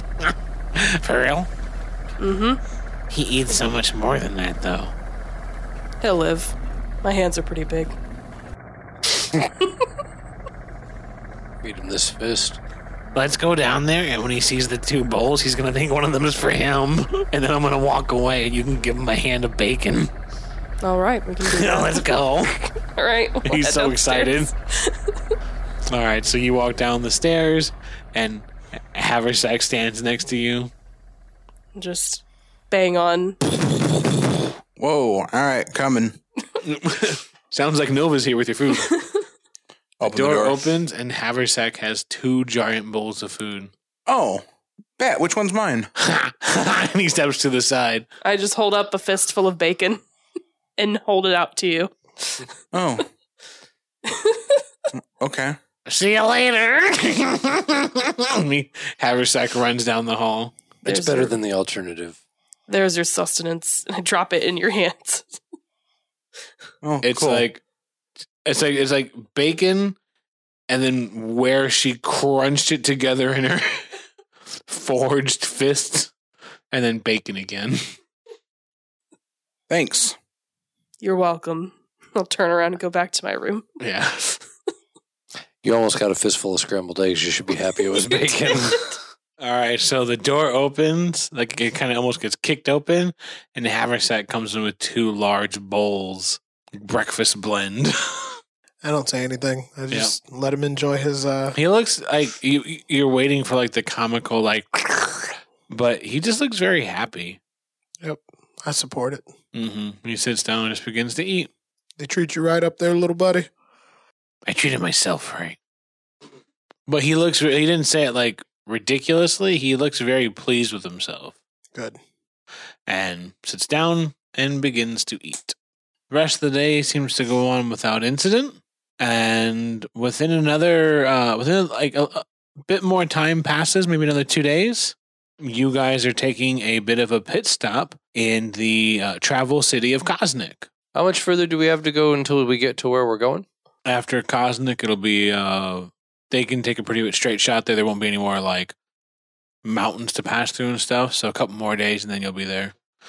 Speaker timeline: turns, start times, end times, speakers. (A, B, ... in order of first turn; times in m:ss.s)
0:00.2-0:01.5 A
0:02.2-0:02.6 B
0:03.1-0:04.9 A
0:06.0-0:07.9 B
0:09.2-0:09.7 B
0:11.6-0:12.6 C
0:13.2-0:20.1 A
0:20.8-0:22.2 B
0:21.4-0:22.7 A
0:22.8-0:25.1 B
0:23.4-0:24.5 A
0:25.9-0:30.7 A
0:31.8-0:33.4 B
0:34.8-0:36.2 D
0:36.6-0:39.0 A
0:38.9-0:39.2 B
0:40.0-0:40.7 D
0:40.0-0:43.7 A
0:44.1-0:44.4 D
0:45.0-0:45.9 D
0:46.0-0:48.1 A
0:48.2-0:50.0 B
0:50.8-0:52.5 B
0:52.7-0:53.1 D
0:54.0-0:54.6 B
0:55.2-0:55.6 D
0:55.9-1:00.6 A
1:00.8-1:02.2 C
1:00.9-1:01.3 B
1:02.7-1:05.4 B
1:06.8-1:07.5 D
1:07.0-1:07.6 A
1:08.4-1:10.0 A
1:10.7-1:14.0 A
1:14.7-1:16.1 A
1:16.7-1:17.9 A
1:19.7-1:20.2 D
1:21.0-1:23.7 B
1:23.8-1:24.4 A
1:25.6-1:28.9 C
1:29.4-1:38.4 A
1:38.8-1:41.6 E
1:39.9-1:40.2 A
1:41.6-1:47.4 A
1:48.0-1:49.2 E
1:49.5-1:51.5 A
1:52.0-1:53.5 E
1:54.5-1:55.6 A
1:56.9-2:01.4 A
2:01.7-2:02.0 E
2:02.9-2:05.6 A
2:06.1-2:20.7 A
2:20.9-2:23.5 C
2:23.9-2:28.8 A
2:29.6-2:32.8 A